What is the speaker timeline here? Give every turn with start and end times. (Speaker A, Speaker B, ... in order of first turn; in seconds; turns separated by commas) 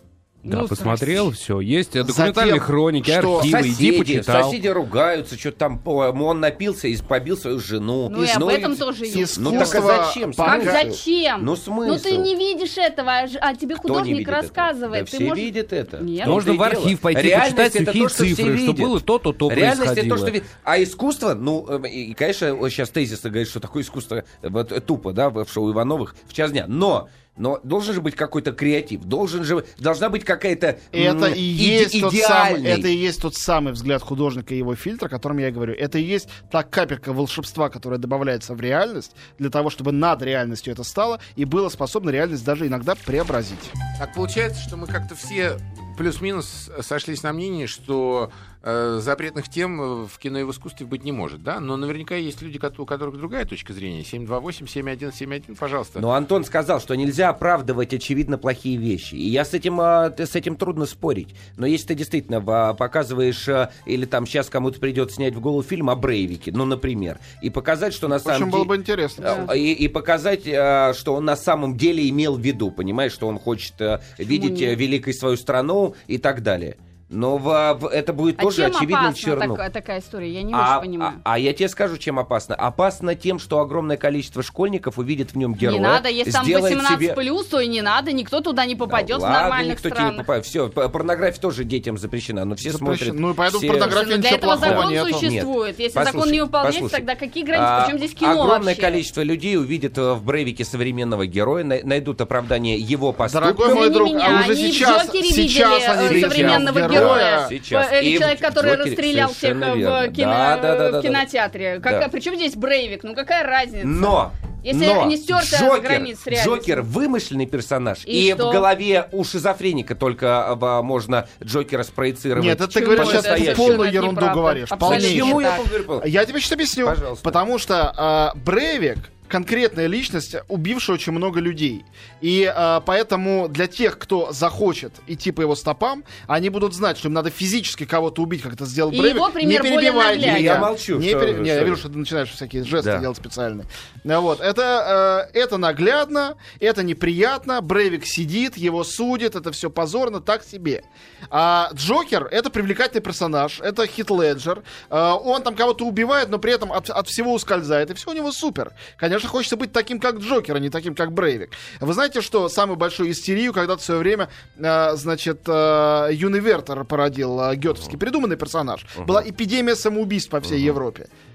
Speaker A: 0.4-4.6, Speaker B: 0.5-1.3, Speaker C: 2.0-3.6, Speaker D: 3.3-12.3, Speaker B: 8.1-9.8, Speaker C: 9.1-10.9, Speaker B: 10.4-16.4, Speaker D: 13.8-19.0, Speaker A: 16.2-20.4, Speaker D: 19.5-32.9, Speaker C: 30.9-43.8, Speaker E: 44.0-56.0, Speaker D: 56.0-79.6, Speaker C: 68.1-69.5, Speaker B: 74.3-74.8, Speaker B: 78.4-81.2, Speaker D: 80.5-87.2, Speaker B: 85.6-90.2, Speaker D: 88.8-104.5, Speaker C: 92.6-95.0, Speaker B: 93.7-99.0, Speaker C: 103.2-107.5, Speaker B: 103.6-116.8, Speaker D: 106.0-111.2, Speaker D: 111.8-112.1, Speaker D: 113.8-123.9, Speaker B: 118.1-118.7, Speaker C: 122.3-171.1, Speaker B: 122.7-125.7, Speaker D: 124.8-126.1, Speaker D: 126.8-127.4, Speaker B: 138.9-140.7, Speaker D: 140.1-141.8, Speaker D: 142.8-143.1, Speaker D: 169.0-169.2, Speaker D: 170.5-170.8